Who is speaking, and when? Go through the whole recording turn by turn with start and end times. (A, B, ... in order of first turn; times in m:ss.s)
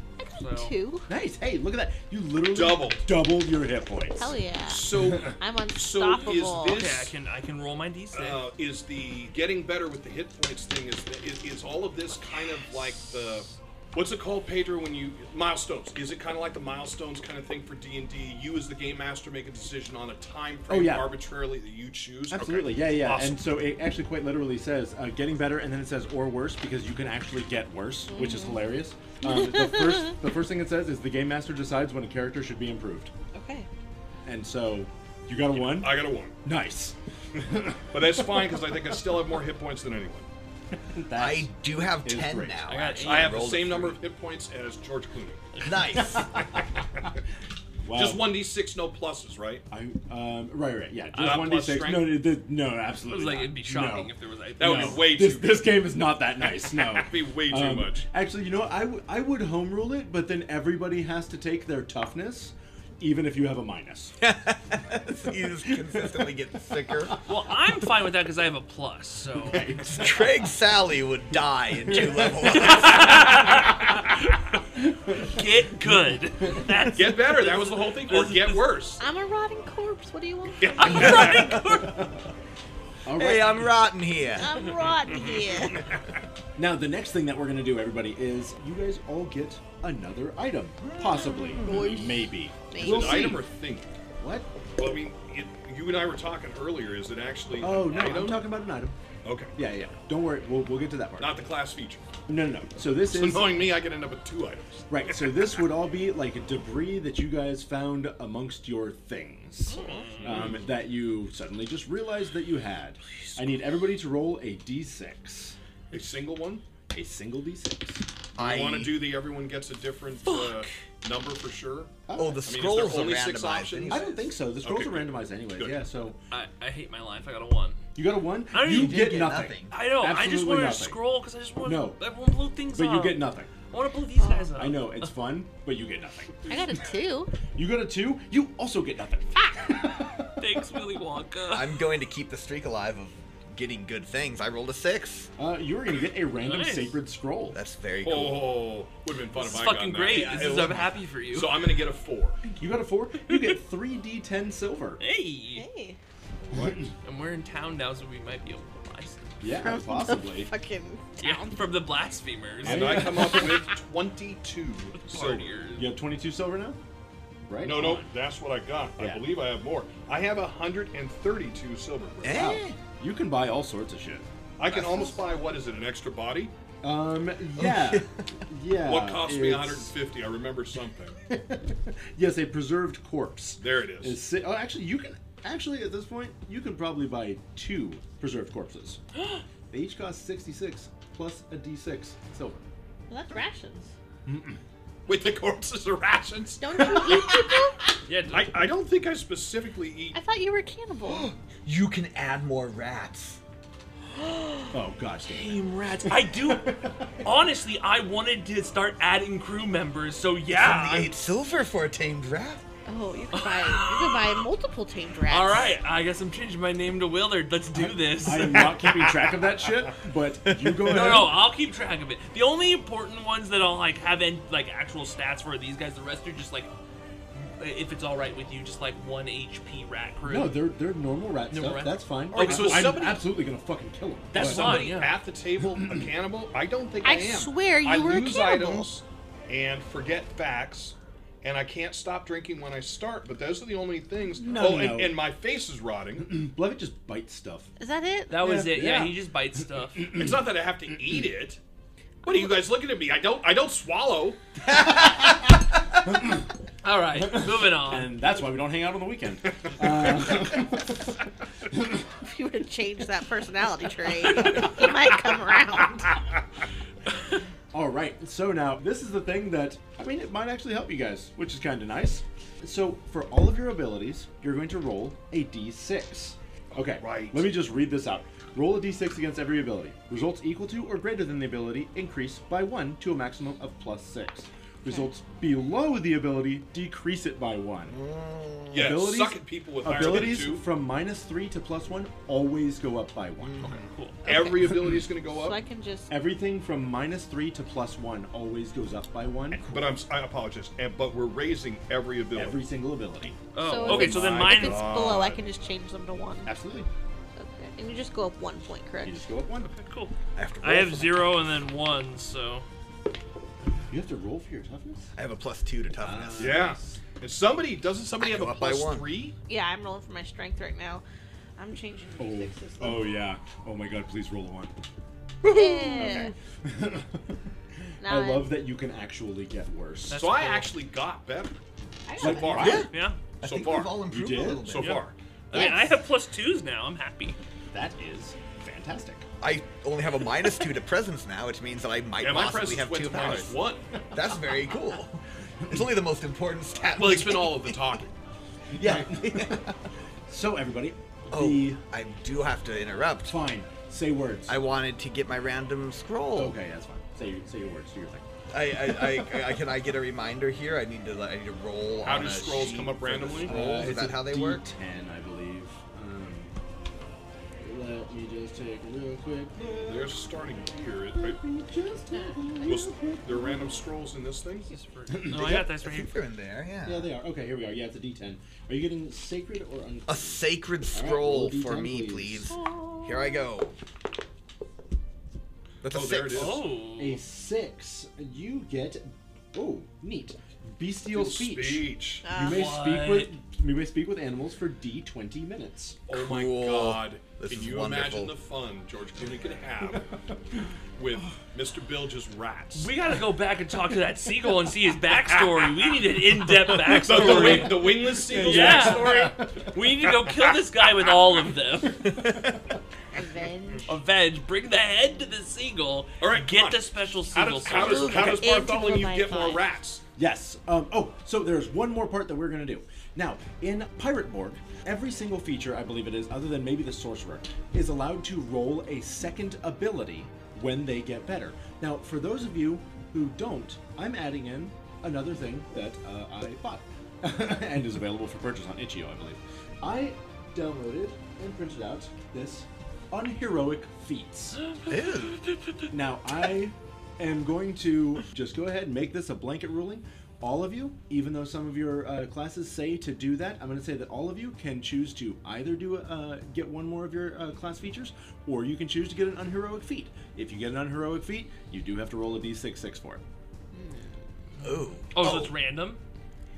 0:00.2-0:01.1 A
0:00.4-0:00.7 B
0:01.1-0:04.3 C
0:02.5-0:03.1 D
0:04.2-0:06.8 A
0:04.6-0:07.1 D
0:06.6-0:08.4 B
0:08.1-0:23.4 D
0:20.7-0:21.1 C
0:22.3-0:33.1 C
0:28.1-0:28.7 A
0:29.2-0:30.1 A
0:33.3-0:33.7 A
0:34.2-0:38.5 C
0:35.5-0:36.3 D
0:37.9-0:40.3 D
0:40.7-0:42.8 C
0:41.1-0:44.0 E
0:42.7-0:43.4 B
0:43.0-0:45.4 D
0:45.6-0:46.5 E
0:45.9-0:47.1 C
0:47.8-0:48.4 C
0:47.9-0:49.6 D
0:49.7-1:04.2 C
0:51.2-0:51.6 B
0:51.2-0:52.2 D
0:53.0-0:55.1 B
0:54.6-0:55.7 D
0:56.6-0:58.0 D
1:04.2-1:07.2 E
1:05.6-1:06.3 C
1:06.9-1:07.2 C
1:07.2-1:09.8 B
1:09.4-1:10.5 C
1:09.9-1:13.7 E
1:11.8-1:13.8 C
1:12.4-1:14.6 B
1:14.7-1:16.7 C
1:15.2-1:18.8 B
1:16.9-1:19.0 D
1:19.0-1:21.1 A
1:20.6-1:21.6 D
1:20.8-1:22.1 B
1:20.8-1:22.1 E
1:23.0-1:23.9 C
1:23.1-1:24.7 E
1:24.4-1:25.9 A
1:26.6-1:33.5 C
1:30.8-1:32.0 E
1:31.1-1:33.3 A
1:32.7-1:33.9 D
1:34.2-1:34.5 C
1:34.8-1:38.4 D
1:37.6-1:39.0 C
1:39.2-1:39.5 D
1:39.5-1:41.4 C
1:41.2-1:42.0 D
1:42.3-1:43.7 C
1:43.0-1:44.9 D
1:44.9-1:55.6 C
1:49.7-1:50.5 B
1:50.2-1:50.7 D
1:55.9-1:56.6 D
1:56.9-1:58.0 C
1:58.4-1:59.1 E
1:58.4-2:05.8 D
2:00.2-2:00.7 B
2:02.1-2:02.5 C
2:02.1-2:04.3 E
2:03.9-2:06.2 C
2:06.3-2:07.8 B
2:07.9-2:11.0 C
2:08.5-2:15.1 B
2:08.6-2:09.7 E
2:11.6-2:12.0 C
2:12.7-2:13.5 C
2:14.2-2:14.5 A
2:14.6-2:16.7 C
2:16.5-2:17.3 A
2:17.5-2:20.3 C
2:20.4-2:21.9 B
2:21.5-2:25.3 E
2:25.4-2:27.6 C
2:26.3-2:27.0 B
2:27.5-2:28.6 E
2:28.0-2:30.7 D
2:29.3-2:31.6 B
2:30.1-2:31.0 E
2:31.3-2:32.4 D
2:32.5-2:35.0 C
2:33.3-2:33.5 B
2:35.0-2:35.6 B
2:35.5-2:36.0 A
2:36.5-2:36.8 D
2:36.5-2:36.9 C
2:37.0-2:39.3 B
2:39.4-2:40.5 C
2:39.6-2:41.6 A
2:41.2-2:43.1 B
2:42.6-2:45.6 D
2:42.6-2:43.6 C
2:45.0-2:45.9 B
2:45.8-2:46.8 C
2:47.4-2:48.0 C
2:47.6-2:52.5 D
2:49.0-2:49.3 C
2:52.2-2:52.8 E
2:52.3-2:54.3 C
2:54.6-2:56.5 D
2:54.7-2:55.2 E
2:56.8-2:59.9 C
2:57.6-2:58.2 E
2:58.8-3:01.2 D
3:01.3-3:09.0 C
3:03.6-3:04.2 D
3:09.7-3:12.6 C
3:13.1-3:13.9 A
3:14.2-3:14.6 C
3:15.1-3:17.6 D
3:16.6-3:17.8 A
3:18.1-3:18.6 B
3:18.3-3:20.2 D
3:20.1-3:21.3 A
3:21.1-3:23.4 E
3:24.2-3:24.7 B
3:24.7-3:27.3 C
3:25.3-3:31.2 B
3:30.5-3:32.6 E
3:32.8-3:35.6 A
3:33.3-3:34.2 B
3:35.3-3:38.7 B
3:38.2-3:41.4 C
3:38.6-3:39.3 D
3:40.4-3:41.3 E
3:40.8-3:46.7 B
3:47.4-3:50.6 B
3:50.2-3:54.9 C
3:51.5-3:53.0 B
3:52.3-3:53.3 D
3:54.3-3:55.2 B
3:54.3-4:06.4 D
3:55.8-3:56.0 C
3:57.0-3:58.9 A
4:04.4-4:05.2 C
4:06.2-4:07.7 C
4:07.8-4:08.4 A
4:08.3-4:10.2 B
4:08.4-4:09.2 C
4:10.1-4:11.6 D
4:12.2-4:14.4 D
4:14.7-4:15.4 E
4:16.1-4:16.4 C
4:16.8-4:18.2 B
4:17.1-4:21.2 C
4:19.7-4:20.2 D
4:21.7-4:22.0 C
4:22.2-4:26.2 A
4:24.4-4:24.9 B
4:27.7-4:48.0 C
4:36.7-4:37.4 D
4:47.9-4:49.0 E
4:48.7-4:50.6 D
4:48.7-4:53.8 C
4:53.4-4:53.8 E
4:53.6-4:54.2 B
4:54.2-4:55.6 D
4:54.3-4:56.1 A
4:56.1-5:00.0 C
4:59.6-5:02.6 D
5:02.3-5:03.4 C
5:03.5-5:04.9 B
5:03.6-5:06.5 A
5:03.8-5:05.4 D
5:06.4-5:06.9 C
5:07.4-5:09.2 A
5:09.0-5:09.7 C
5:09.6-5:12.6 B
5:10.4-5:11.3 E
5:13.9-5:15.1 C
5:15.1-5:16.7 E
5:16.0-5:17.0 C
5:16.4-5:19.3 D
5:18.2-5:19.1 E
5:19.5-5:21.0 A
5:21.6-5:23.1 A
5:22.2-5:24.7 C
5:25.4-5:27.3 C
5:25.4-5:26.3 A
5:28.0-5:28.6 A
5:28.0-5:30.2 C
5:30.1-5:30.7 B
5:30.1-5:31.5 D
5:32.0-5:32.8 A
5:32.2-5:32.9 D
5:32.2-5:32.9 C
5:32.5-5:35.0 E
5:32.9-5:33.2 B
5:33.4-5:34.0 D
5:34.1-5:34.8 C
5:34.6-5:35.1 D
5:34.7-5:37.4 B
5:35.5-5:36.0 A
5:37.7-5:39.2 C
5:39.4-5:43.6 E
5:42.2-5:43.9 D
5:44.1-5:48.0 E
5:46.9-5:48.2 D
5:48.7-5:49.7 C
5:48.7-5:49.8 E
5:50.3-5:51.8 C
5:51.3-5:53.4 E
5:53.2-5:54.6 C
5:54.5-5:56.6 E
5:56.3-5:58.2 C
5:58.5-6:04.6 E
6:02.0-6:03.8 D
6:03.4-6:06.5 C
6:07.6-6:10.2 C
6:09.8-6:11.4 D
6:11.1-6:13.8 C
6:12.1-6:12.6 A
6:12.6-6:14.7 D
6:14.7-6:16.2 B
6:15.1-6:15.7 C
6:15.3-6:17.1 E
6:16.8-6:22.5 C
6:20.1-6:23.7 E
6:22.5-6:23.5 A
6:25.8-6:26.6 E
6:25.9-6:26.7 D
6:26.3-6:27.2 B
6:27.0-6:36.0 C
6:31.1-6:32.2 D
6:32.2-6:32.7 A
6:32.4-6:33.3 B
6:36.1-6:40.1 D
6:36.1-6:38.4 E
6:41.0-6:42.9 D
6:42.7-6:52.2 B
6:46.7-6:49.4 D
6:47.0-6:49.8 C
6:53.1-6:53.9 A
6:53.9-6:58.4 B
6:56.2-7:00.0 D
6:57.7-6:59.7 A
7:00.2-7:24.6 C
7:24.6-7:25.9 B
7:24.9-7:25.4 E
7:25.9-7:43.2 C
7:43.7-7:44.2 A
7:44.6-7:45.5 E
7:44.6-7:46.0 B